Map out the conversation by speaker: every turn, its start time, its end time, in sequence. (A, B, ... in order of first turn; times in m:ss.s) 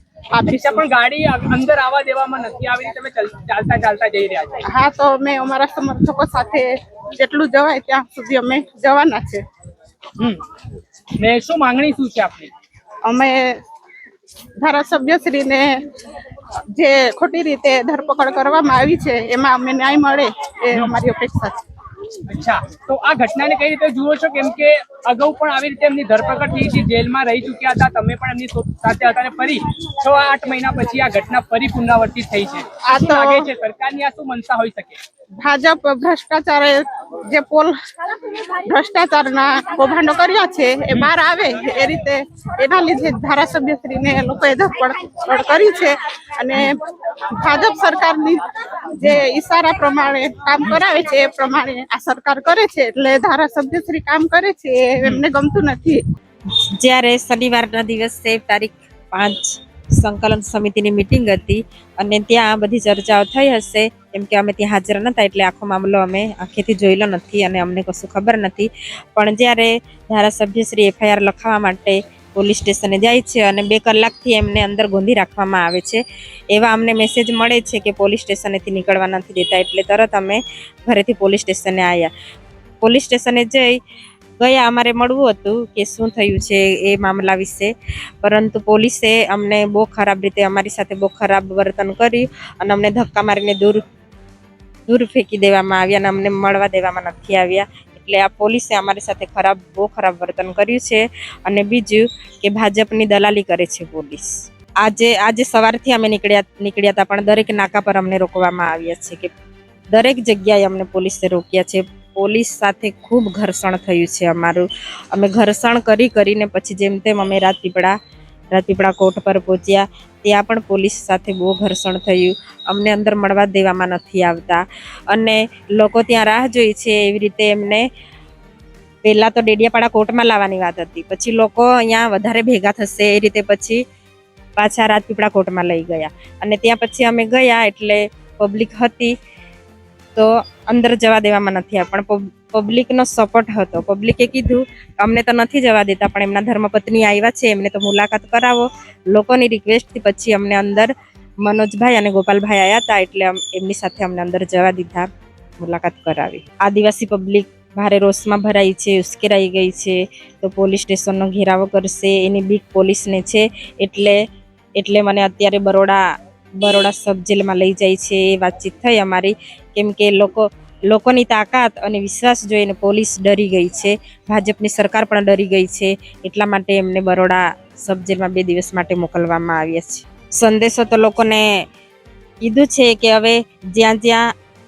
0:00.3-0:00.8 A
0:00.5-0:04.6 B
0:04.6-0:09.4 A
0:10.2-0:10.5 B
0:11.2-0:12.5 B
0:13.0-0:13.6 A
0:14.6-0:15.8 A
0:16.7-0:21.6 A
0:22.3-0:35.0 B
0:32.8-0:33.5 A
0:35.4-0:56.0 A
0:56.8-1:16.0 C
1:16.5-1:22.1 C
1:22.8-1:23.8 C
1:24.4-1:27.7 C
1:28.2-1:33.8 C
1:34.9-1:49.3 C
1:49.9-1:57.9 C
1:58.5-2:07.9 C
2:09.0-2:13.8 C
2:14.6-2:19.1 C
2:20.1-2:30.9 C
2:31.4-2:35.1 C
2:35.6-2:44.2 C
2:44.8-2:46.0 C
2:46.6-3:01.5 C
3:02.4-3:04.2 C